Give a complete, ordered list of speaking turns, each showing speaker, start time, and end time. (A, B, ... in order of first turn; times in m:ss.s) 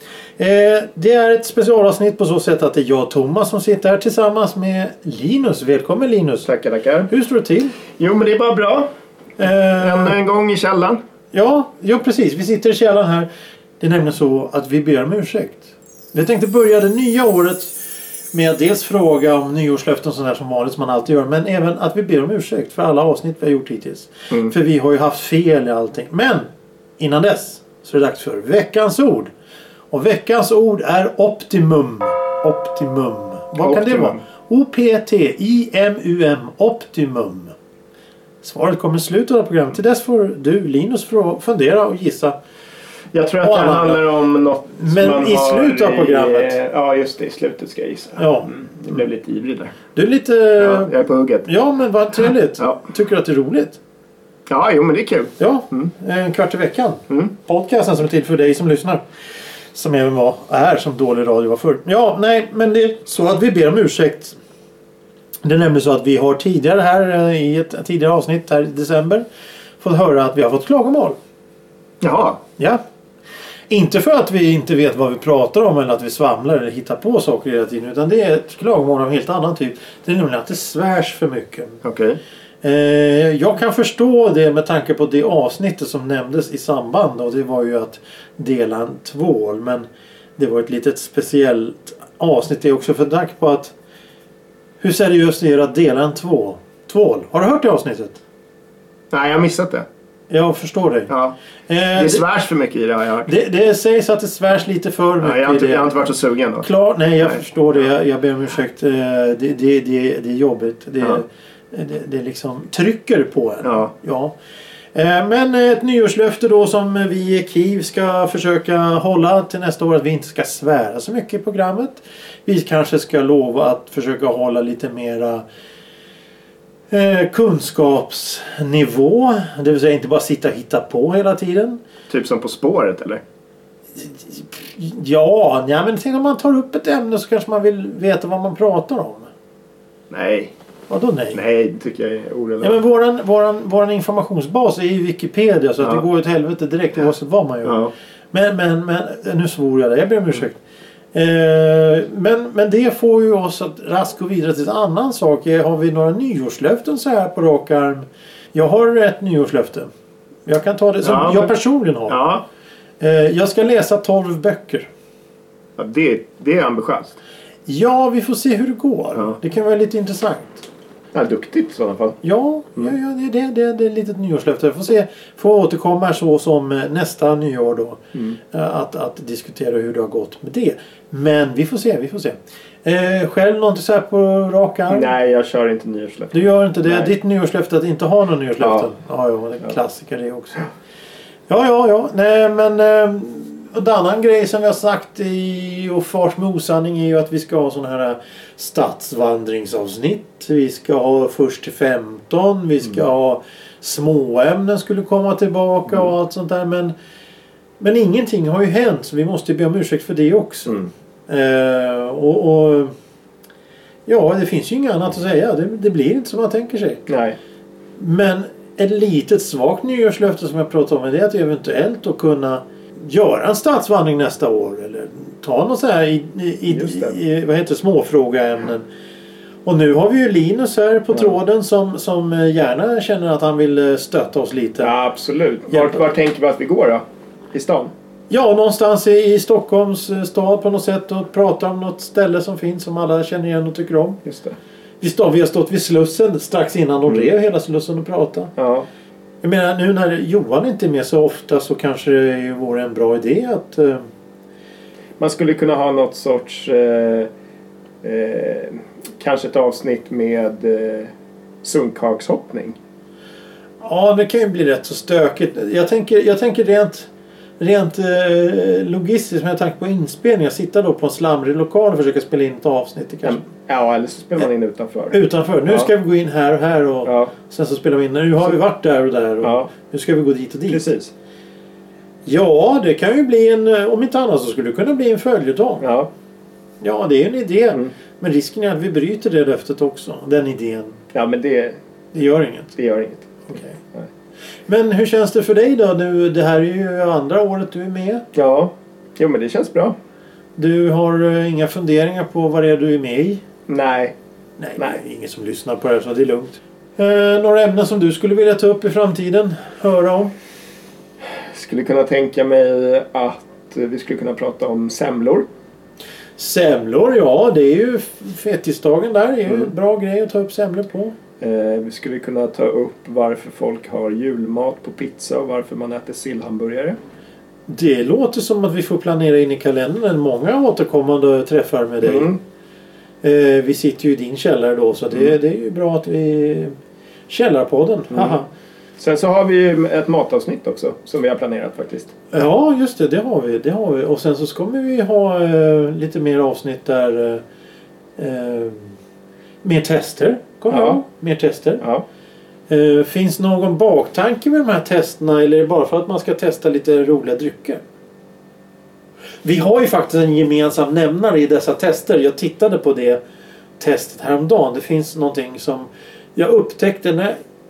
0:00.4-0:06.5 A
0:06.4-0:07.1 B
0:07.1-0:07.8 A
0:08.0-0:08.9 B
0:09.4-0:10.2 A
0:09.8-0:11.0 B
0:11.3-0:13.3 A
0:13.8-0:17.8 A
0:18.3-0:26.5 A
0:27.0-0:29.3 A
0:29.9-0:37.6 A
0:33.6-0:34.2 B
0:38.4-0:42.4 A
0:43.1-0:49.8 B
0:43.4-0:44.1 A
0:44.8-0:46.6 A
0:48.2-0:48.5 A
0:50.0-0:53.8 A
0:50.6-0:51.5 B
0:54.5-0:55.9 B
0:55.4-0:59.0 A
0:57.1-0:57.4 B
0:59.7-1:04.4 A
1:05.4-1:09.2 A
1:09.8-1:11.2 A
1:12.0-1:12.4 B
1:13.7-1:21.8 A
1:21.8-1:22.2 B
1:22.6-1:29.9 A
1:30.4-1:33.7 A
1:34.8-1:38.2 A
1:39.1-1:39.9 B
1:40.3-1:41.1 A
1:41.1-1:41.4 B
1:41.7-1:42.3 A
1:42.0-1:43.4 B
1:43.2-1:46.0 A
1:45.2-1:47.4 B
1:46.6-1:54.4 A
1:53.6-1:53.9 B
1:54.9-2:05.4 A
2:06.9-2:11.8 A
2:12.1-2:13.2 B
2:14.0-2:19.3 A
2:20.1-2:20.5 B
2:20.9-2:21.4 A
2:21.3-2:22.8 B
2:22.6-2:30.6 A
2:27.6-2:27.9 B
2:31.1-2:39.9 A
2:40.5-2:42.2 A
2:41.0-2:41.5 B
2:42.1-2:42.5 B
2:43.0-2:44.9 A
2:45.8-2:47.2 B
2:47.7-2:50.6 A
2:51.1-2:52.2 B
2:52.2-3:05.1 A
3:04.9-3:07.1 B
3:06.3-3:10.7 A
3:08.6-3:08.9 B
3:11.5-3:26.9 A
3:27.8-3:30.8 A
3:31.3-3:32.9 A
3:34.1-3:37.0 A
3:37.1-3:37.4 B
3:38.0-3:48.8 A
3:46.7-3:47.2 B
3:49.6-3:54.9 A
3:54.8-3:57.9 B
3:55.7-3:56.0 A
3:58.3-4:04.2 A
4:04.2-4:04.6 B
4:05.0-4:08.5 A
4:08.6-4:08.9 B
4:09.4-4:14.0 A
4:15.2-4:17.3 B
4:18.0-4:21.1 B
4:21.6-4:22.8 B
4:23.8-4:27.1 A
4:27.6-4:33.5 A
4:33.2-4:35.9 B
4:35.1-4:40.8 A
4:37.0-4:37.3 B
4:39.4-4:39.7 B
4:40.7-4:41.1 B
4:42.3-4:45.9 A
4:45.8-4:46.1 B
4:46.8-4:51.0 A
4:51.1-4:51.8 B
4:52.1-4:52.7 A
4:52.8-4:54.1 B
4:53.5-4:53.8 A
4:54.7-4:58.2 A
4:58.3-5:00.0 B
5:00.6-5:03.4 A
5:03.7-5:04.2 B
5:04.6-5:10.3 A
5:11.4-5:15.5 B
5:16.4-5:21.2 A
5:21.4-5:27.0 B
5:27.7-5:32.3 A
5:32.0-5:32.4 B
5:33.2-5:36.7 A
5:37.3-5:38.5 A
5:38.1-5:38.4 B
5:39.0-5:42.1 B
5:42.3-5:47.4 A
5:48.2-5:49.0 A
5:49.6-5:51.8 A
5:50.7-5:51.0 B
5:52.7-5:57.8 A
5:59.4-6:03.2 A
6:03.8-6:07.4 A